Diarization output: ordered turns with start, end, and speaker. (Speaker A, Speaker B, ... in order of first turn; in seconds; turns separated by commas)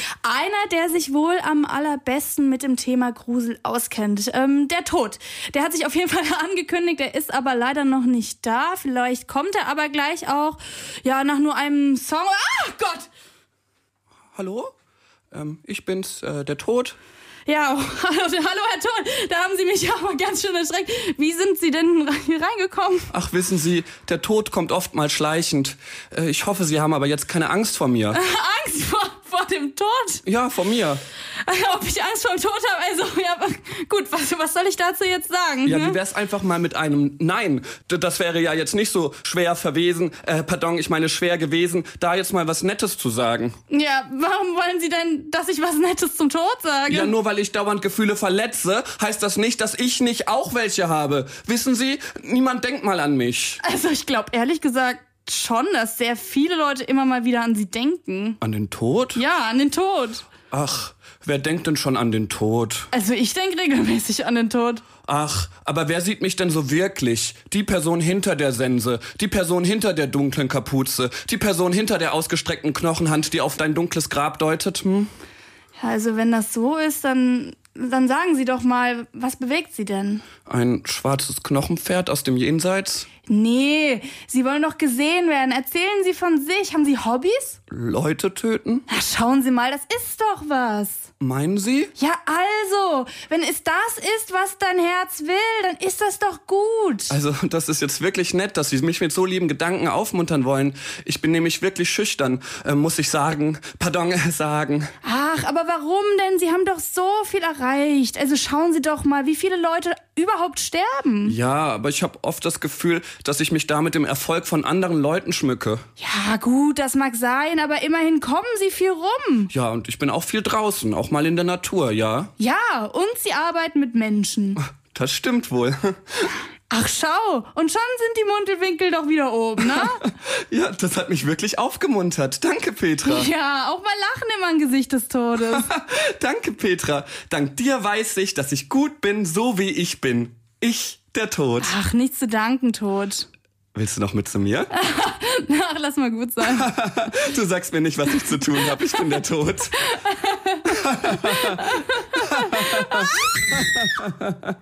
Speaker A: 0.2-13.1, Speaker B: 14.3-14.7, Speaker B: 15.3-17.0, Speaker A: 17.5-23.1, Speaker B: 23.1-28.2, Speaker A: 28.1-30.2, Speaker B: 30.3-31.0, Speaker A: 31.4-36.0, Speaker B: 35.6-43.6, Speaker A: 43.7-47.1, Speaker B: 46.9-53.6, Speaker A: 53.6-58.4, Speaker B: 58.4-59.2, Speaker A: 59.1-60.3, Speaker B: 60.5-62.9, Speaker A: 62.9-64.8, Speaker B: 65.0-75.1, Speaker A: 75.8-80.2, Speaker B: 80.5-83.1, Speaker A: 83.3-87.6, Speaker B: 87.7-88.9, Speaker A: 88.9-91.1, Speaker B: 91.2-91.9, Speaker A: 92.0-97.2, Speaker B: 97.1-104.9, Speaker A: 105.0-111.4, Speaker B: 111.3-115.8, Speaker A: 116.0-119.5, Speaker B: 119.5-122.3, Speaker A: 122.4-124.6, Speaker B: 124.8-126.3, Speaker A: 126.7-130.1, Speaker B: 130.3-133.3, Speaker A: 133.0-135.7, Speaker B: 135.4-141.8, Speaker A: 141.6-143.3, Speaker B: 143.8-144.7, Speaker A: 144.7-146.8, Speaker B: 146.4-149.8, Speaker A: 148.2-149.2, Speaker A: 149.8-153.5, Speaker B: 150.7-154.5